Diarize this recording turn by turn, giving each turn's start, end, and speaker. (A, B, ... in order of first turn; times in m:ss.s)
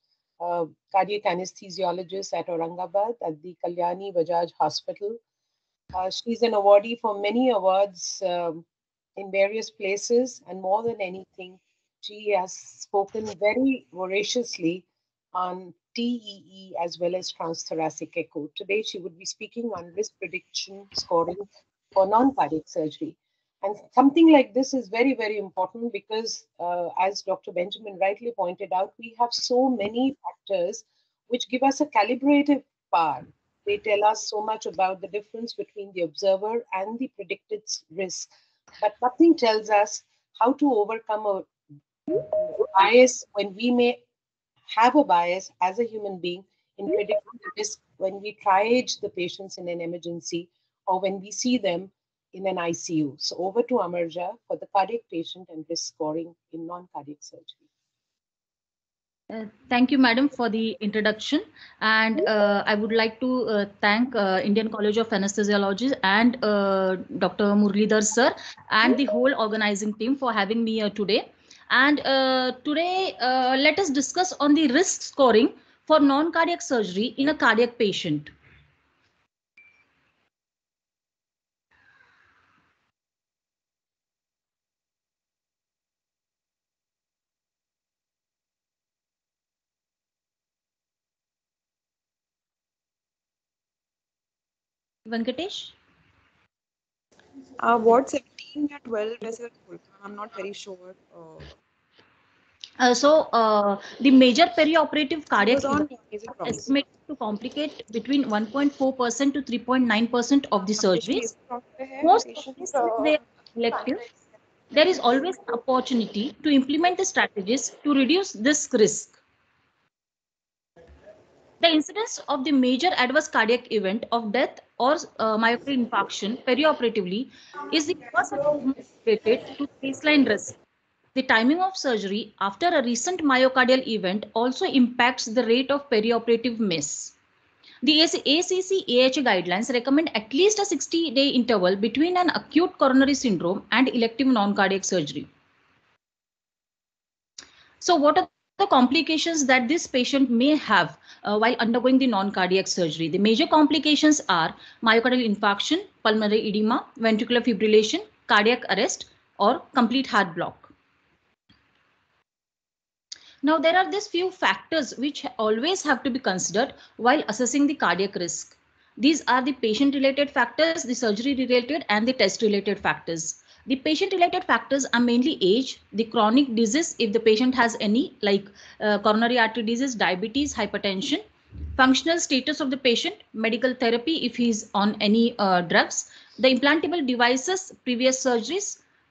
0:00.4-0:05.2 A
0:06.0-0:08.6 A
0:09.2-0:21.4 A
0:22.0-0:41.5 A
0:42.5-0:44.0 A
0:44.7-0:57.6 A
0:59.3-1:18.3 B
1:35.1-1:35.7 B
1:37.6-1:41.5 C
1:42.8-1:45.9 B
1:45.4-1:46.7 C
1:46.4-1:51.3 B
1:50.8-1:54.1 C
1:52.0-1:54.0 B
1:54.7-1:59.2 B
1:55.0-1:55.2 C
2:01.6-2:10.6 B
2:11.2-2:17.1 B
2:17.8-2:25.3 B
2:27.8-2:40.7 B
2:43.4-3:01.2 B
3:01.8-3:08.8 B